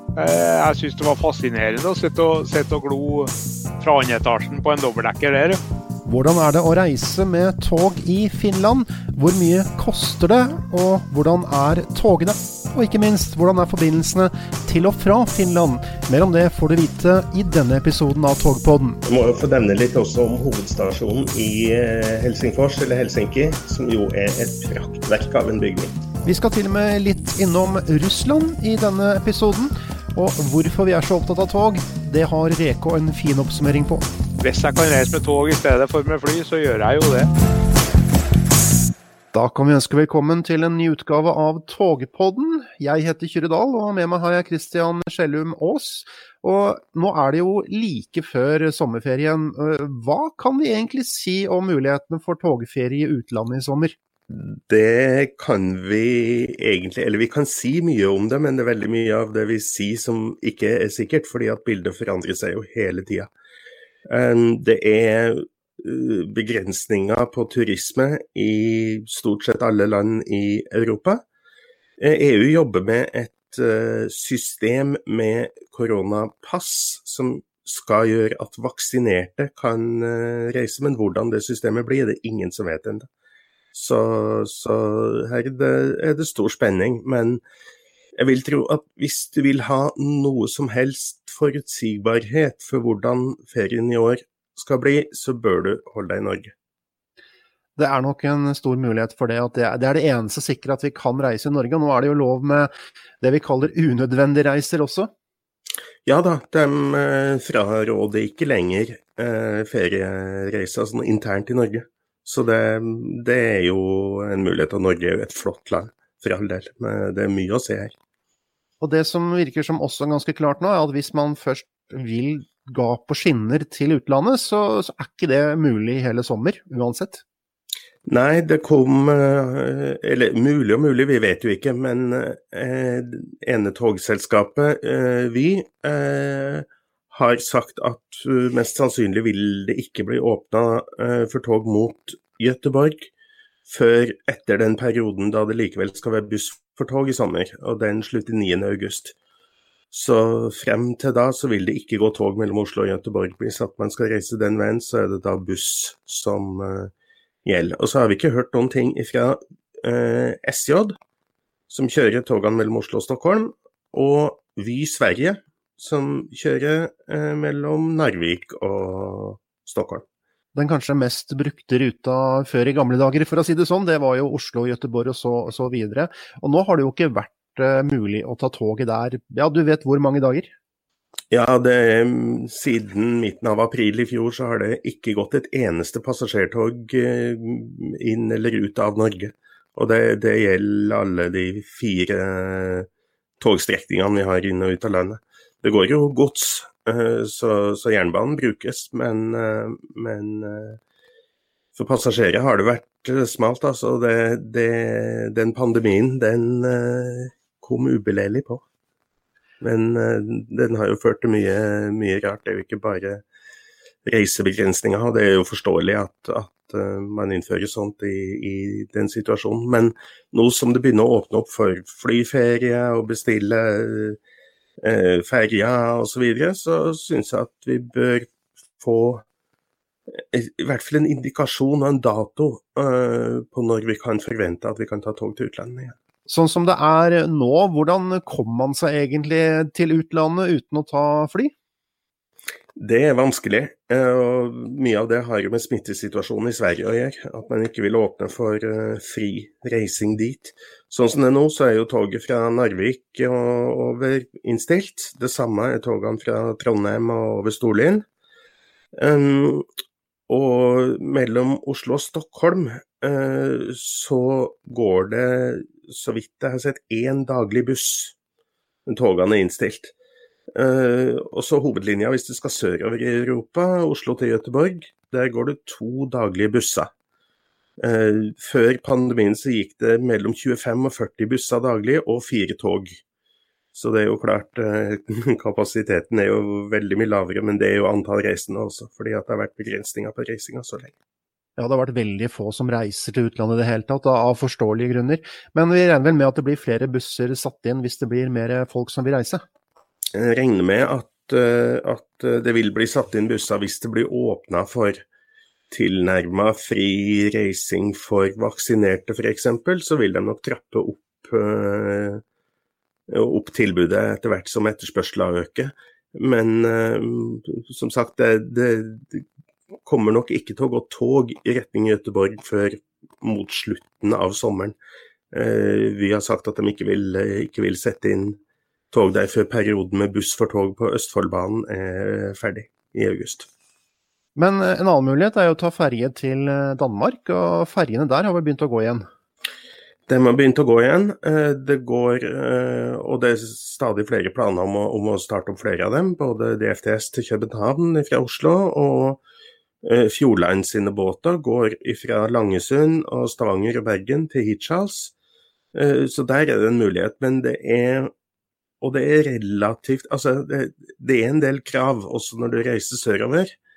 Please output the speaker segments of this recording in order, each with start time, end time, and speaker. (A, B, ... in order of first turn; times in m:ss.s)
0:00.2-0:05.6 A
0:06.1-0:19.0 B
0:19.0-0:26.0 C
0:26.2-0:34.0 B
0:34.4-0:37.3 A
0:39.3-0:54.0 B
0:54.3-1:03.3 C
1:04.1-1:11.2 C
1:12.0-1:23.1 C
1:23.7-1:27.4 C
1:28.2-1:36.5 C
1:37.8-1:45.1 B
1:46.0-1:57.9 C
1:58.8-2:07.2 B
2:08.1-2:23.1 C
2:23.7-2:29.2 C
2:29.9-2:36.9 C
2:37.4-2:41.0 C
2:41.7-2:50.0 C
2:50.6-3:00.5 B
3:01.3-3:12.9 C
3:13.4-3:20.8 C
3:21.8-3:28.6 C
3:29.6-3:33.2 C
3:34.0-3:44.2 C
3:44.8-3:49.2 C
3:50.3-3:56.0 C
3:56.3-4:01.5 B
4:02.8-4:18.0 C
4:19.0-4:19.7 C
4:20.3-4:28.2 C
4:28.9-4:29.9 C
4:30.6-4:36.9 C
4:37.8-4:43.0 C
4:43.7-4:50.9 C
4:51.6-4:59.4 B
5:00.1-5:05.0 C
5:05.7-5:12.2 C
5:13.1-5:19.3 C
5:19.8-5:24.8 C
5:25.3-5:28.4 C
5:28.9-5:33.5 C
5:34.4-5:39.1 B
5:40.1-5:49.2 C
5:49.8-5:55.1 C
5:55.7-5:58.1 C
5:58.8-6:03.6 C